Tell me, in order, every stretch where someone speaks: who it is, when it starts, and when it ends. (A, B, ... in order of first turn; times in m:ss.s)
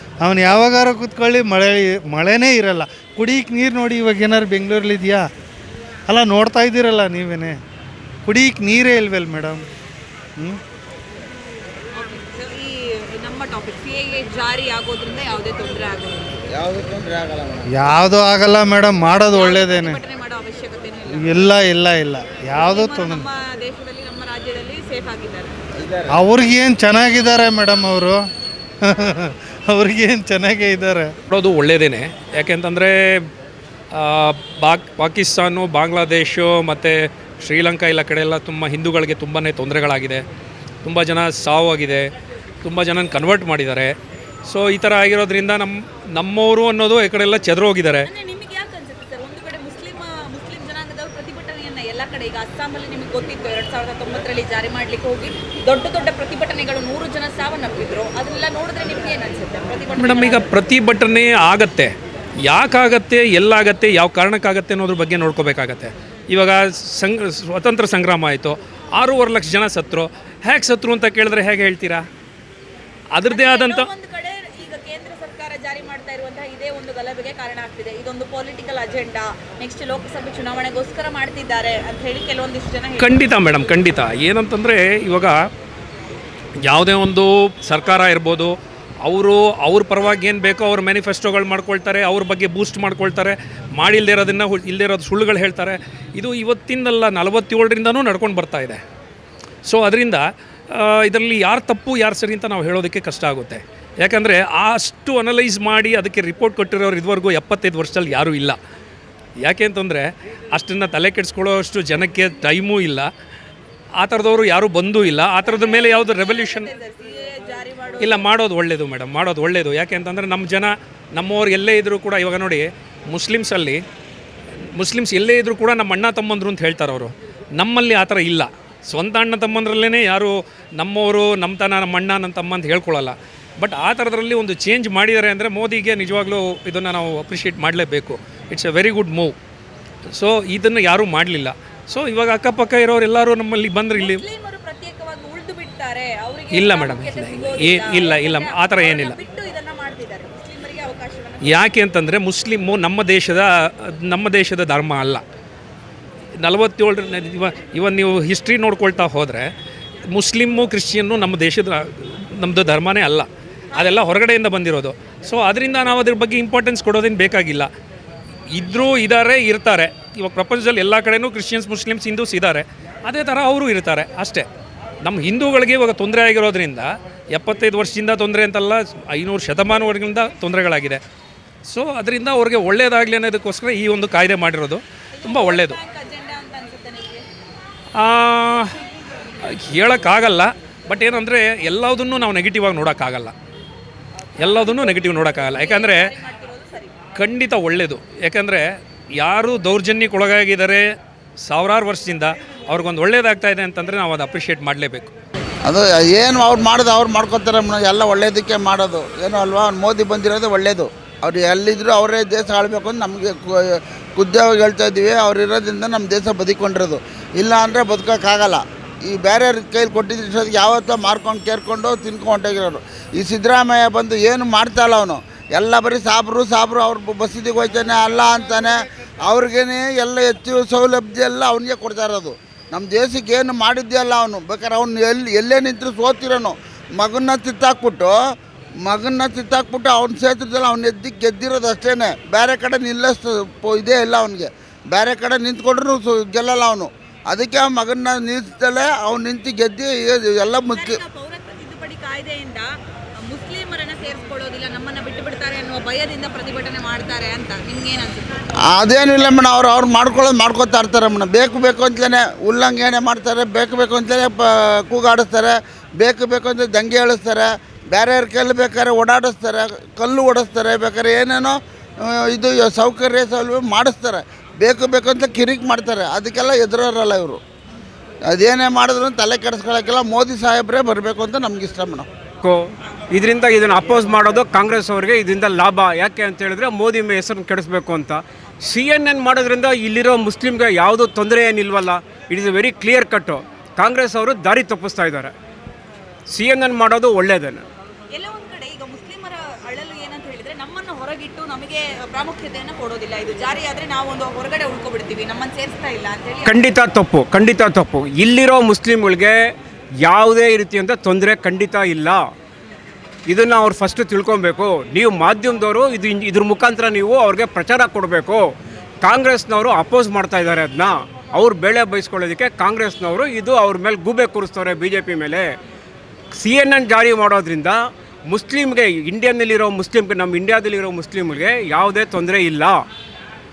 0:00.2-0:05.2 A
0:06.1-0:07.6 A
0:08.3-0:09.6 A
0:11.9-0:16.4 B
0:16.6-0:17.4 C
0:17.8-0:20.0 A
0:19.3-0:21.6 B
0:21.1-0:23.2 A
0:22.5-0:25.6 B
0:26.1-0:28.2 A
0:28.8-0:31.1 A
0:31.3-0:33.2 D
0:33.9-0:40.2 D
0:40.8-0:42.1 D
0:42.6-0:43.9 D
0:44.5-0:48.1 D
0:48.0-1:00.6 B
1:00.0-1:01.9 D
1:02.4-1:12.0 D
1:13.1-1:13.9 D
1:13.2-1:23.3 B
1:23.0-1:25.4 D
1:26.6-1:28.5 D
1:29.0-1:38.8 D
1:39.7-1:48.6 D
1:49.4-1:53.1 D
1:54.0-1:56.7 D
1:55.4-1:58.3 B
1:58.0-2:03.8 D
2:04.8-2:19.3 D
2:20.2-2:24.2 D
2:23.9-2:31.7 B
2:26.5-2:29.2 D
2:31.4-2:35.2 D
2:36.4-2:39.5 D
2:40.1-2:47.7 D
2:48.5-2:54.4 D
2:55.0-3:01.0 D
3:01.7-3:05.8 D
3:05.1-3:07.2 B
3:08.0-3:08.7 D
3:09.4-3:13.3 D
3:14.4-3:16.1 D
3:14.4-3:17.0 B
3:17.2-3:18.6 D
3:19.2-3:20.8 D
3:21.4-3:25.1 D
3:25.6-3:58.2 C
3:58.8-4:11.0 C
4:10.7-4:18.5 B
4:18.7-4:37.4 C
4:38.3-4:42.1 C
4:42.4-4:55.3 E
4:56.3-4:57.6 E
4:58.1-5:06.7 B
5:06.5-5:09.4 E
5:10.0-5:12.2 E
5:13.3-5:18.4 E
5:19.0-5:25.5 E
5:26.3-5:32.8 E